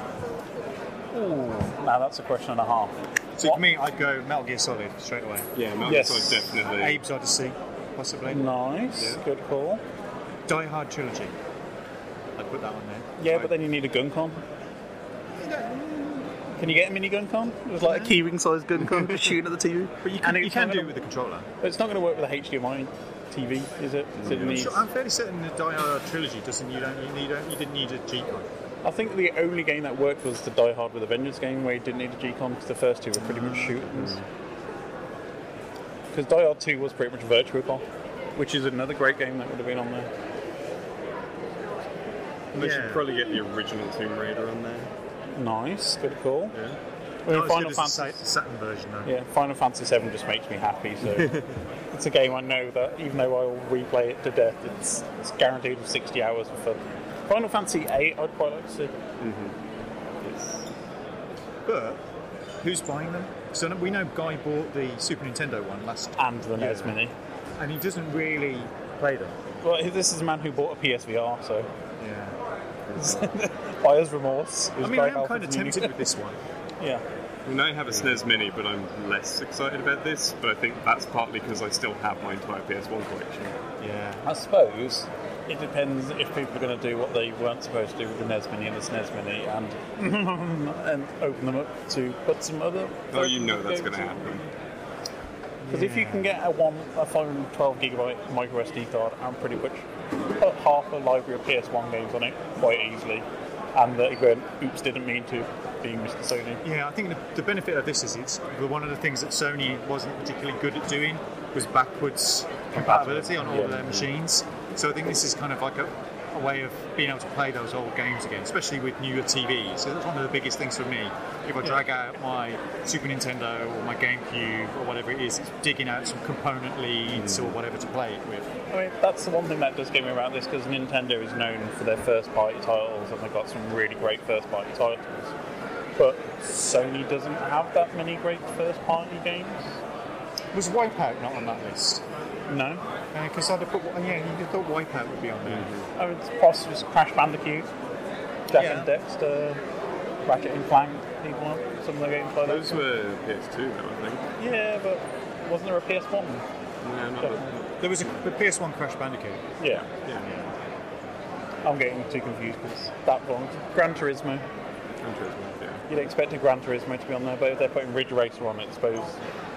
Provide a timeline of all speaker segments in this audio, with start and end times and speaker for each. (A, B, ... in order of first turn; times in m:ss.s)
0:01.1-0:03.6 A
0:03.4-0:05.5 B
0:05.5-0:07.0 C
0:05.8-0:06.5 A
0:06.7-0:08.5 B
0:08.3-0:09.8 A
0:09.0-0:09.2 C
0:10.5-0:11.4 B
0:12.4-0:13.1 B
0:13.2-0:14.4 A
0:15.4-0:16.4 B
0:16.6-0:21.0 A
0:17.8-0:18.2 B
0:20.0-0:21.5 B
0:21.6-0:24.8 A
0:24.2-0:24.7 C
0:24.3-0:28.5 B
0:28.8-0:34.2 A
0:33.2-0:33.8 B
0:34.0-0:34.2 C
0:36.1-0:37.8 A
0:38.4-0:40.1 A
0:42.6-0:44.9 C
0:42.6-0:43.0 B
0:45.3-0:46.6 A
0:46.5-0:46.8 C
0:47.3-0:48.2 A
0:47.3-0:49.1 B
0:49.0-0:51.3 A
0:51.9-0:58.9 A
0:59.2-0:59.6 C
1:00.2-1:00.7 C
1:01.7-1:02.0 B
1:02.6-1:07.0 B
1:06.2-1:07.1 A
1:07.6-1:09.4 B
1:09.6-1:11.7 A
1:12.0-1:12.4 B
1:12.9-1:13.2 C
1:13.0-1:16.0 A
1:14.8-1:16.4 B
1:17.5-1:23.6 C
1:23.8-1:24.2 B
1:24.2-1:34.2 A
1:33.1-1:34.4 C
1:35.6-1:36.3 B
1:35.7-1:39.9 A
1:40.4-1:46.6 A
1:46.6-2:08.5 B
1:52.7-1:54.1 A
2:07.1-2:07.6 C
2:08.7-2:15.3 A
2:16.0-2:19.8 A
2:20.5-2:22.0 B
2:22.5-2:22.8 A
2:23.1-2:25.7 B
2:25.4-2:25.9 C
2:26.0-2:27.7 A
2:28.5-2:29.6 A
2:28.6-2:28.9 B
2:30.3-2:32.8 A
2:32.4-2:34.3 C
2:34.4-2:36.4 A
2:36.8-2:37.8 C
2:37.2-2:37.5 A
2:37.8-2:39.4 B
2:39.6-2:39.9 A
2:39.8-2:40.3 C
2:41.6-2:44.4 A
2:45.0-2:45.8 C
2:45.9-2:49.2 A